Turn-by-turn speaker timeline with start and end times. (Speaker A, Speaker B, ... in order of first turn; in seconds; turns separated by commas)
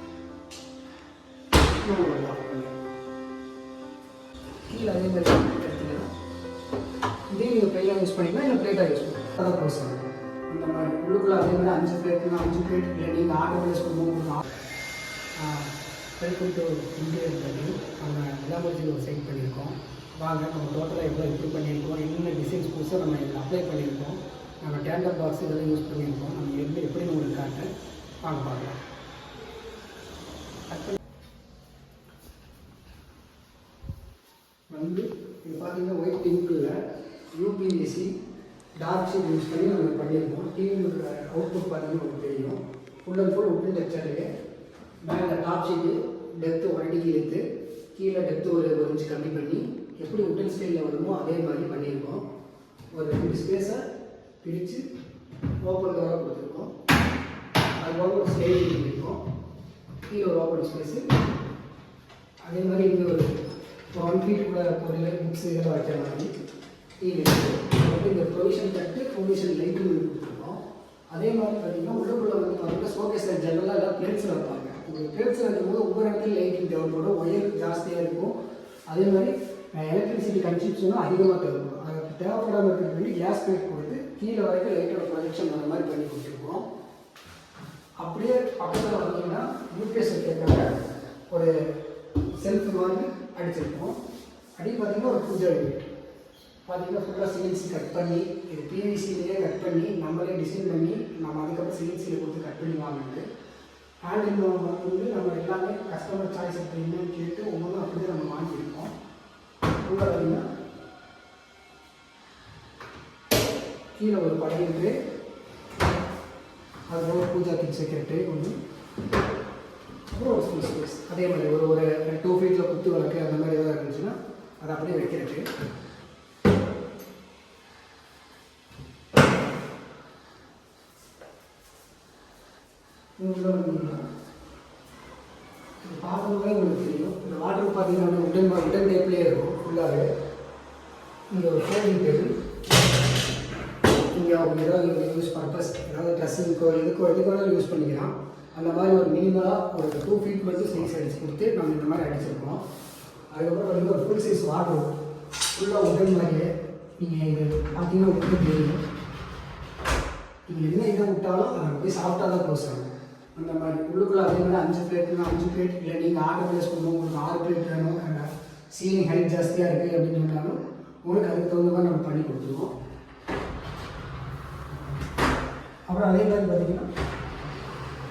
Speaker A: 1.8-2.7, Speaker A: 4.7-6.1, Speaker A: 7.3-14.5, Speaker A: 15.3-27.7, Speaker A: 28.2-28.8, Speaker A: 30.7-31.0, Speaker A: 34.7-36.8, Speaker A: 37.3-38.1, Speaker A: 38.8-44.3, Speaker A: 45.0-52.2, Speaker A: 52.9-53.8, Speaker A: 54.4-54.8, Speaker A: 55.6-56.7, Speaker A: 57.8-59.2, Speaker A: 60.1-61.0, Speaker A: 62.5-63.3, Speaker A: 63.9-66.3, Speaker A: 67.0-70.6, Speaker A: 71.1-78.3, Speaker A: 78.9-86.7, Speaker A: 88.0-90.7, Speaker A: 92.3-94.0, Speaker A: 94.6-95.9, Speaker A: 96.7-103.2, Speaker A: 104.0-108.9, Speaker A: 109.8-110.4, Speaker A: 114.0-115.0, Speaker A: 116.9-118.6, Speaker A: 120.1-125.5, Speaker A: 133.2-134.0, Speaker A: 135.8-140.1, Speaker A: 141.3-142.3, Speaker A: 144.1-152.6, Speaker A: 153.3-154.9, Speaker A: 155.5-158.8, Speaker A: 160.5-172.7, Speaker A: 175.9-176.9